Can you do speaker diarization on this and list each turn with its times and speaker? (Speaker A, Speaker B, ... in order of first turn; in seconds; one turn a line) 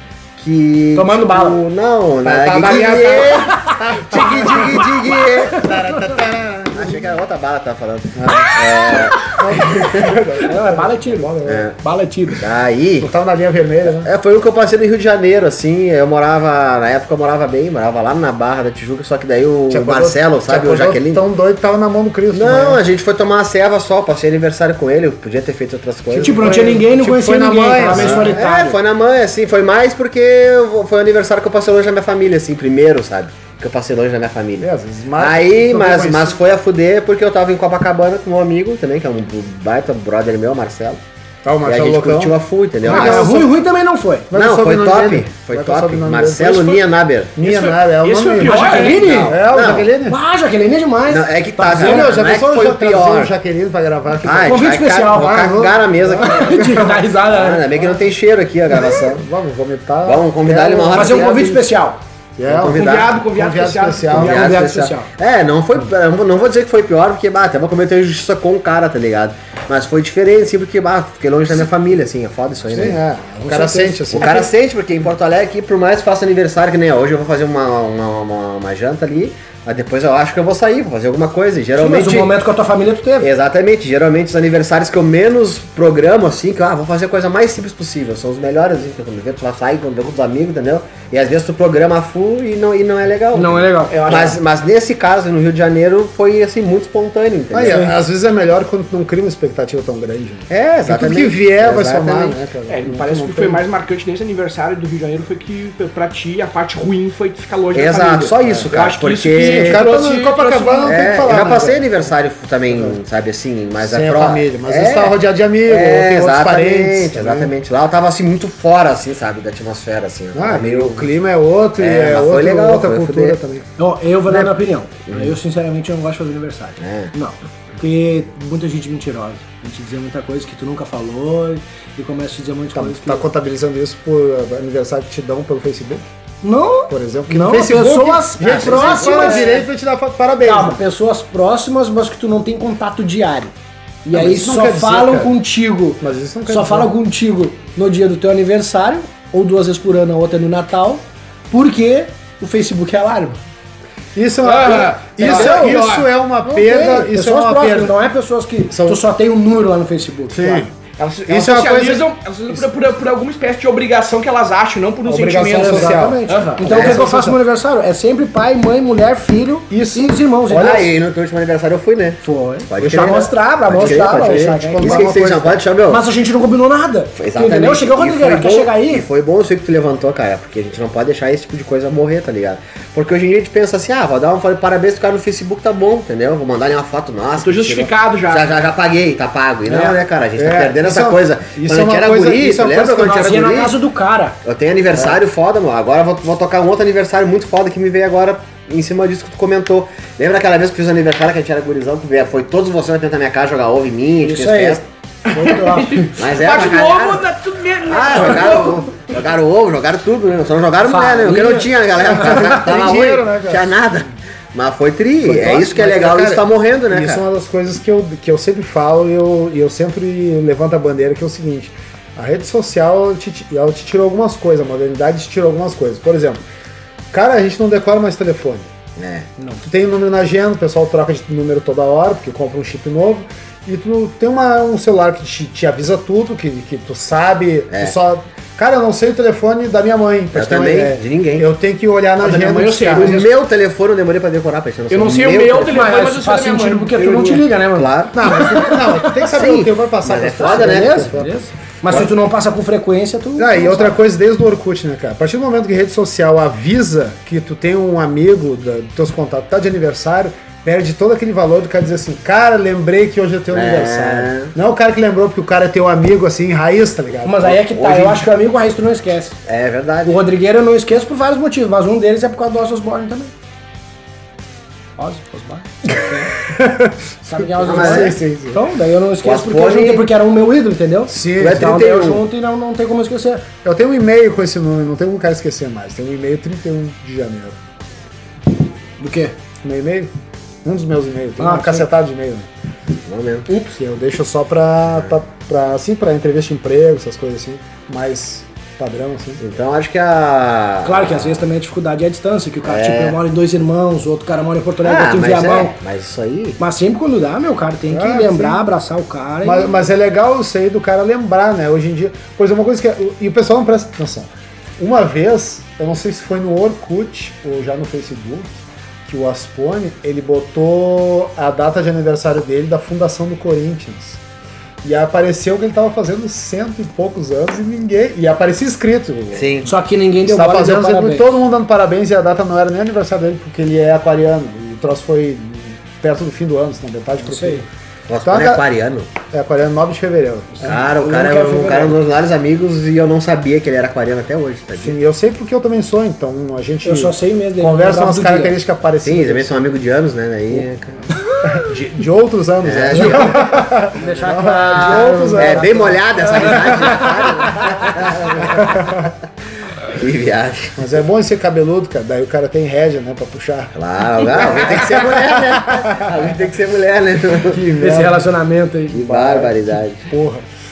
Speaker A: 0.4-5.7
Speaker B: 0.9-1.6
Speaker C: 2.2-7.0
Speaker B: 4.2-6.2
Speaker A: 6.7-10.2
Speaker C: 8.2-8.6
Speaker C: 9.2-11.7
Speaker B: 10.4-12.4
Speaker A: 11.4-11.8
Speaker A: 12.4-13.1
Speaker C: 13.0-14.1
Speaker A: 13.8-21.2
Speaker C: 19.7-22.8
Speaker A: 22.3-26.7
Speaker C: 26.1-28.4
Speaker B: 26.2-28.8
Speaker A: 27.9-41.0
Speaker C: 34.6-36.4
Speaker C: 41.5-43.6
Speaker A: 41.6-43.4
Speaker B: 42.8-44.3
Speaker C: 44.3-50.2
Speaker A: 44.3-47.4
Speaker D: 47.4-49.3
Speaker B: 48.4-49.4
Speaker A: 48.9-49.9
Speaker B: 50.1-52.1
Speaker A: 51.1-53.3
Speaker C: 51.7-57.0
Speaker A: 54.2-59.2
Speaker B: 54.4-55.6
Speaker B: 56.2-57.7
Speaker C: 58.9-61.6
Speaker A: 60.0-61.7
Speaker B: 60.9-62.0
Speaker C: 62.4-64.5
Speaker A: 62.5-63.2
Speaker D: 62.7-64.2
Speaker A: 64.1-73.0
Speaker B: 64.1-65.1
Speaker C: 72.7-74.5
Speaker B: 73.4-74.2
Speaker A: 74.1-82.4
Speaker B: 81.8-83.3
Speaker A: 83.2-97.9
Speaker B: 93.3-94.2
Speaker D: 93.9-94.4
Speaker C: 97.5-103.6
Speaker B: 97.6-98.0
Speaker A: 100.5-102.5
Speaker D: 102.7-111.5
Speaker A: 107.7-109.8
Speaker C: 109.4-111.8
Speaker A: 110.8-121.1
Speaker C: 113.8-117.5
Speaker C: 120.3-123.7
Speaker A: 121.8-123.4
Speaker B: 123.8-133.2
Speaker A: 125.1-125.4
Speaker A: 126.8-127.1
Speaker C: 132.8-136.1
Speaker B: 136.4-139.7
Speaker C: 136.9-140.8
Speaker A: 138.5-139.5
Speaker B: 140.4-143.5
Speaker B: 144.0-153.4
Speaker C: 144.1-145.4
Speaker C: 146.0-146.9
Speaker C: 154.2-158.0
Speaker D: 154.4-156.1
Speaker B: 155.2-155.9
Speaker B: 156.4-160.7
Speaker C: 158.7-159.0
Speaker C: 160.3-160.7
Speaker D: 161.0-166.9
Speaker C: 161.3-162.6
Speaker C: 165.1-167.4
Speaker B: 165.5-170.9
Speaker A: 166.7-167.1
Speaker C: 169.7-170.9
Speaker A: 170.5-176.1
Speaker B: 172.2-179.1
Speaker C: 172.8-175.6
Speaker A: 177.2-193.8
Speaker D: 187.4-188.6
Speaker C: 190.4-193.6
Speaker B: 193.0-194.4
Speaker A: 194.4-204.8
Speaker B: 204.2-206.2
Speaker D: 205.3-208.9
Speaker A: 206.2-207.3
Speaker A: 207.8-217.2
Speaker B: 210.8-212.6
Speaker C: 212.1-213.7
Speaker C: 215.2-226.4
Speaker C: 227.1-228.7
Speaker A: 229.0-229.3
Speaker C: 229.6-243.1
Speaker A: 240.3-241.5
Speaker D: 242.2-243.3
Speaker A: 243.0-245.8
Speaker D: 244.9-247.4
Speaker B: 245.7-249.3
Speaker A: 247.1-248.2
Speaker C: 248.1-251.4
Speaker A: 249.3-251.2
Speaker B: 250.4-254.0
Speaker A: 251.9-252.1
Speaker C: 253.4-267.6
Speaker A: 263.5-264.5
Speaker B: 267.2-269.4
Speaker A: 267.6-268.3
Speaker A: 269.5-270.2
Speaker B: 270.1-273.3
Speaker B: 275.0-276.5
Speaker C: 276.5-278.6
Speaker B: 277.2-283.5
Speaker A: 277.6-278.2
Speaker A: 279.2-280.1
Speaker C: 281.1-281.8
Speaker A: 281.4-282.2
Speaker C: 283.6-287.6
Speaker B: 289.0-289.4
Speaker C: 289.6-290.1
Speaker C: 290.6-292.5
Speaker B: 291.4-291.9
Speaker A: 293.1-293.5
Speaker C: 293.7-299.4
Speaker A: 299.4-301.5
Speaker B: 300.8-305.7
Speaker A: 302.6-303.2
Speaker A: 304.8-306.6
Speaker B: 306.6-309.7
Speaker C: 307.9-308.7
Speaker C: 309.4-324.2
Speaker C: 324.8-329.7
Speaker A: 329.3-329.7
Speaker B: 329.7-331.4
Speaker C: 330.2-337.7
Speaker B: 337.2-337.6
Speaker A: 338.1-339.1
Speaker C: 338.2-338.6
Speaker C: 339.3-340.8
Speaker B: 340.6-342.0
Speaker A: 340.6-345.0
Speaker C: 344.8-349.7
Speaker B: 346.8-348.6
Speaker A: 349.0-351.0
Speaker C: 351.5-357.9
Speaker A: 352.6-353.4
Speaker B: 352.9-355.8
Speaker A: 354.6-359.1
Speaker B: 356.5-357.1
Speaker C: 358.5-359.1
Speaker A: 359.8-360.9
Speaker C: 360.8-366.1
Speaker A: 363.7-367.6
Speaker C: 367.5-368.3
Speaker B: 367.8-369.5
Speaker A: 368.9-370.1
Speaker C: 370.1-370.4